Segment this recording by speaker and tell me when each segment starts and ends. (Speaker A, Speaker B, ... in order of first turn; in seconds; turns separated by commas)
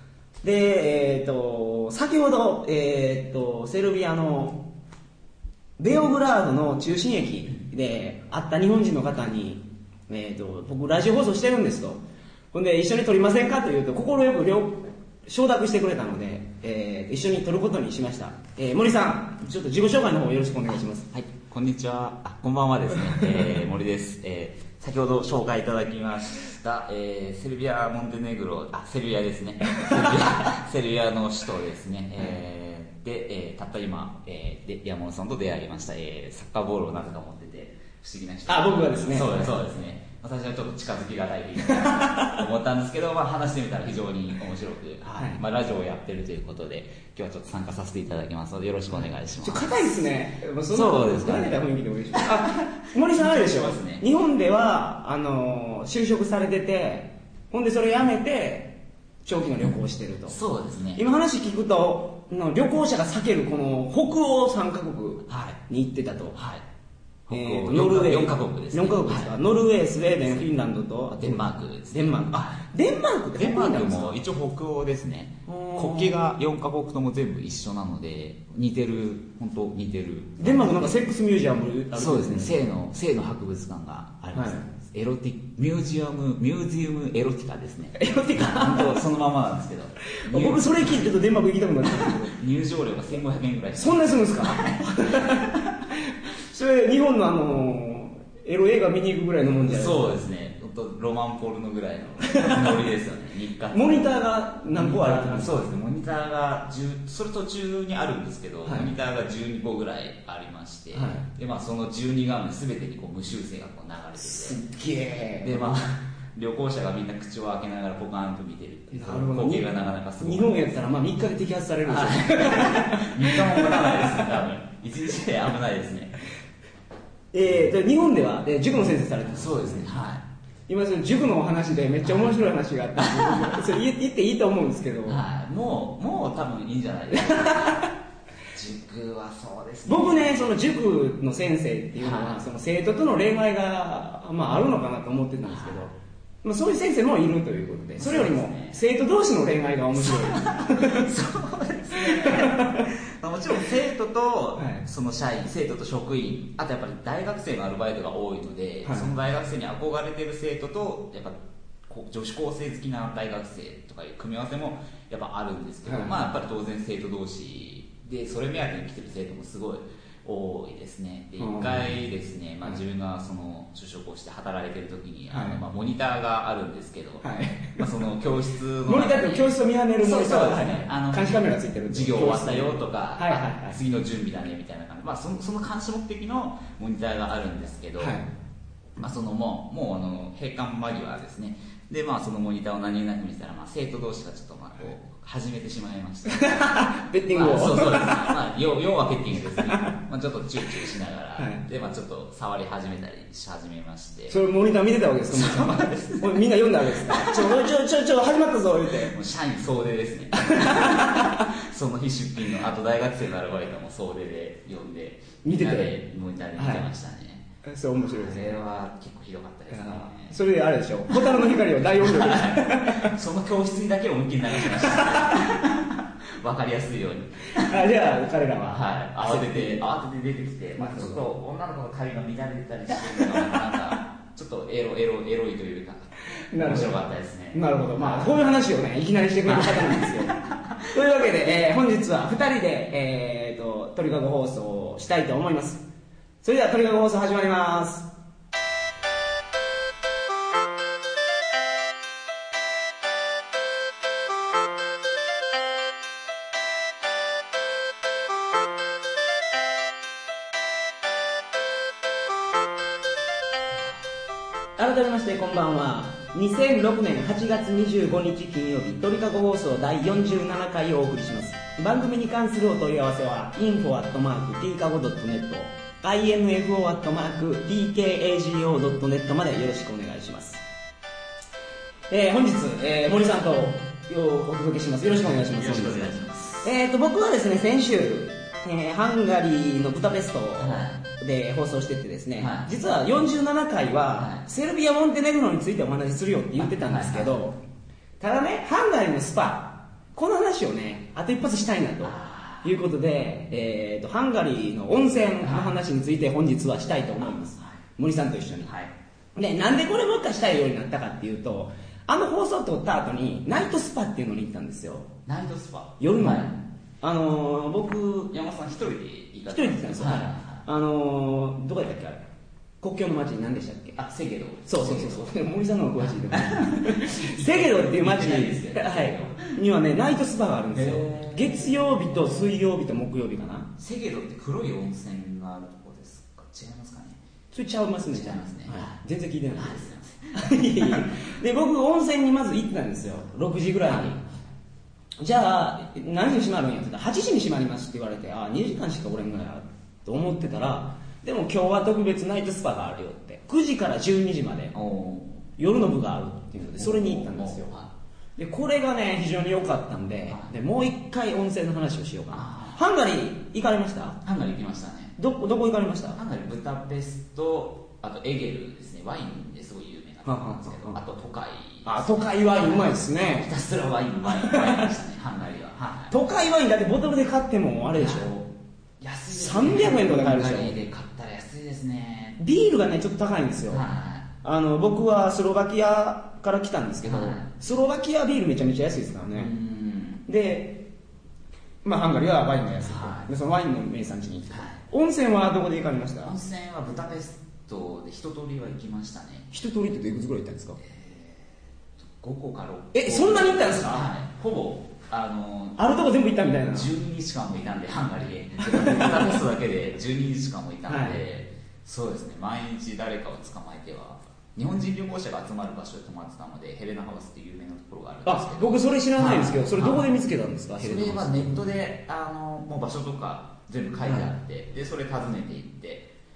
Speaker A: 0.4-4.6, Speaker A: 5.8-12.0, Speaker A: 12.5-21.2, Speaker B: 21.3-49.9, Speaker A: 29.6-30.3, Speaker A: 38.5-39.5, Speaker A: 41.7-42.4, Speaker A: 45.0-45.4, Speaker A: 49.4-60.4, Speaker B: 50.7-51.6, Speaker B: 52.1-54.0, Speaker B: 60.3-61.0, Speaker A: 60.9-66.4, Speaker B: 65.3-65.6, Speaker B: 66.3-66.6, Speaker B: 67.3-69.4, Speaker A: 67.3-74.2, Speaker B: 70.2-70.5, Speaker B: 71.2-72.6, Speaker B: 73.3-81.0, Speaker A: 75.5-76.2, Speaker A: 80.4-82.5, Speaker B: 81.9-91.1, Speaker A: 84.3-84.6, Speaker A: 88.0-89.0, Speaker A: 90.1-92.4, Speaker B: 92.0-95.8, Speaker A: 93.8-100.2, Speaker B: 99.6-104.2, Speaker A: 102.2-102.8, Speaker A: 103.7-105.6, Speaker B: 104.7-114.6, Speaker A: 108.6-108.9, Speaker A: 110.9-111.2, Speaker A: 114.2-115.7, Speaker B: 115.4-120.6, Speaker A: 118.9-124.4, Speaker B: 121.8-126.2, Speaker A: 127.3-129.9, Speaker B: 129.3-130.2, Speaker A: 130.7-135.2, Speaker B: 132.0-132.3, Speaker B: 133.0-133.8, Speaker B: 135.1-137.9, Speaker A: 137.1-137.9, Speaker B: 138.5-140.7, Speaker A: 139.8-145.9, Speaker B: 142.0-142.4, Speaker B: 145.4-145.9, Speaker A: 146.4-151.1, Speaker B: 148.0-148.8, Speaker B: 150.0-188.2, Speaker A: 151.9-152.9, Speaker A: 154.6-154.8, Speaker A: 158.8-159.1, Speaker A: 165.8-166.2, Speaker A: 171.4-171.9, Speaker A: 175.3-175.6, Speaker A: 177.2-177.9, Speaker A: 178.8-183.8, Speaker A: 188.0-188.2, Speaker B: 189.0-204.3, Speaker A: 196.3-198.4, Speaker A: 199.6-199.9, Speaker A: 201.4-201.6, Speaker A: 204.3-209.1, Speaker B: 205.3-207.7, Speaker B: 209.0-217.5, Speaker A: 210.4-211.5, Speaker A: 215.4-216.0, Speaker A: 216.6-216.8, Speaker A: 217.6-218.6, Speaker B: 218.0-220.3, Speaker A: 219.7-223.1, Speaker B: 221.1-227.8, Speaker A: 224.6-225.5, Speaker A: 227.5-229.8, Speaker B: 228.7-238.4, Speaker A: 230.8-231.2, Speaker A: 236.5-237.0, Speaker A: 237.5-240.3, Speaker B: 239.4-241.0, Speaker A: 240.9-245.8, Speaker A: 246.4-248.1, Speaker A: 264.8-280.6, Speaker A: 282.1-297.6, Speaker B: 285.1-286.7, Speaker B: 290.6-291.0, Speaker B: 292.4-292.7, Speaker B: 294.1-294.4, Speaker B: 296.6-297.3, Speaker A: 298.2-308.7, Speaker B: 302.0-302.8, Speaker B: 305.4-305.8, Speaker B: 307.2-307.8, Speaker B: 308.6-308.9, Speaker A: 309.4-315.1, Speaker B: 315.2-316.6, Speaker A: 316.0-318.3, Speaker B: 318.3-320.6, Speaker A: 319.5-322.2, Speaker A: 322.8-324.0, Speaker B: 324.0-325.4, Speaker A: 324.7-333.7, Speaker B: 326.0-329.5, Speaker B: 330.7-332.6, Speaker B: 333.8-337.2, Speaker A: 337.5-344.2, Speaker B: 338.1-339.0, Speaker B: 339.5-341.3, Speaker B: 343.9-344.2, Speaker A: 345.2-354.7, Speaker B: 354.7-355.5, Speaker A: 355.6-357.7, Speaker B: 356.7-357.9, Speaker A: 358.4-364.2, Speaker B: 362.3-362.8, Speaker B: 364.2-365.1, Speaker A: 365.2-366.2, Speaker B: 366.1-376.1, Speaker A: 370.2-371.0, Speaker A: 371.8-373.5, Speaker A: 374.2-374.9, Speaker A: 376.1-378.5, Speaker B: 377.9-378.3, Speaker B: 379.0-382.4, Speaker A: 379.3-380.7, Speaker A: 382.4-383.8, Speaker B: 383.7-384.3, Speaker A: 384.4-389.5, Speaker B: 387.0-387.5, Speaker B: 389.3-390.2, Speaker A: 390.3-390.8, Speaker A: 391.8-396.3, Speaker B: 392.8-393.3, Speaker B: 394.5-394.8, Speaker B: 396.2-399.5, Speaker A: 399.5-400.8, Speaker B: 400.8-405.8, Speaker A: 402.9-404.1, Speaker A: 405.8-406.9, Speaker B: 406.7-420.1, Speaker A: 408.6-409.4, Speaker A: 410.9-411.2, Speaker A: 418.2-421.6, Speaker B: 420.8-426.1